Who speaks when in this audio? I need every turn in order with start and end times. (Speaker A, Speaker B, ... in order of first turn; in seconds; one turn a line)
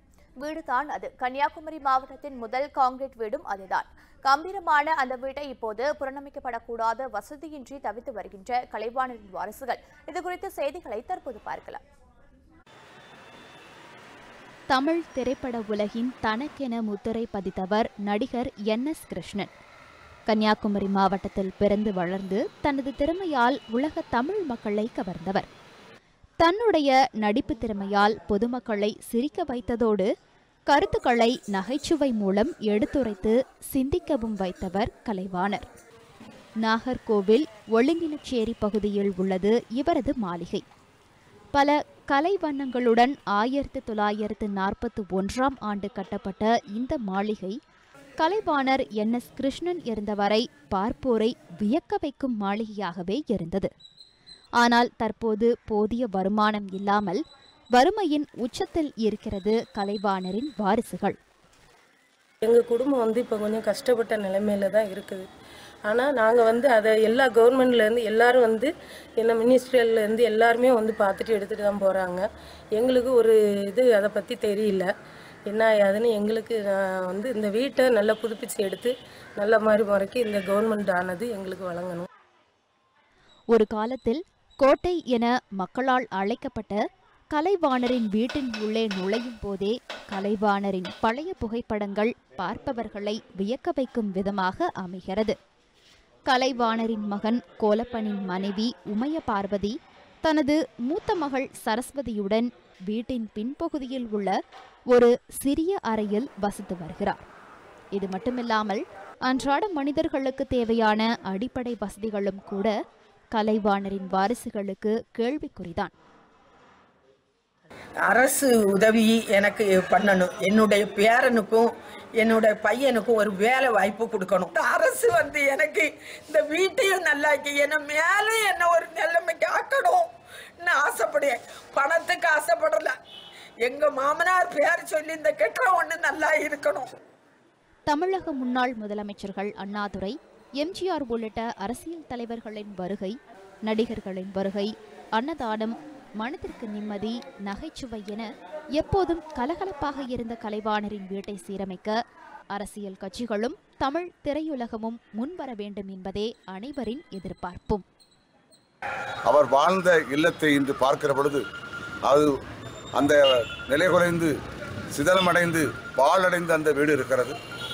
Speaker A: 0.4-11.8
Speaker B: 14.7-19.5
Speaker B: 20.3-25.5
Speaker B: 26.4-30.1
Speaker B: 30.7-35.7
Speaker B: 36.6-40.6
Speaker B: 41.5-47.6
Speaker B: 48.2-53.7
Speaker B: 54.6-57.2
Speaker B: 57.8-61.2
Speaker C: 62.5-65.2
Speaker C: 65.9-72.2
Speaker C: 72.8-74.9
Speaker C: 75.5-82.1
Speaker B: 83.5-86.8
Speaker B: 87.3-95.4
Speaker B: 96.3-99.7
Speaker B: 100.2-104.3
Speaker B: 104.9-107.2
Speaker B: 108.0-112.7
Speaker B: 113.3-115.9
Speaker D: 118.0-132.9
Speaker D: 133.6-136.9
Speaker B: 137.9-152.0
Speaker B: 152.5-157.8
Speaker E: 159.3-161.4
Speaker E: 163.0-164.3
Speaker E: 164.9-167.3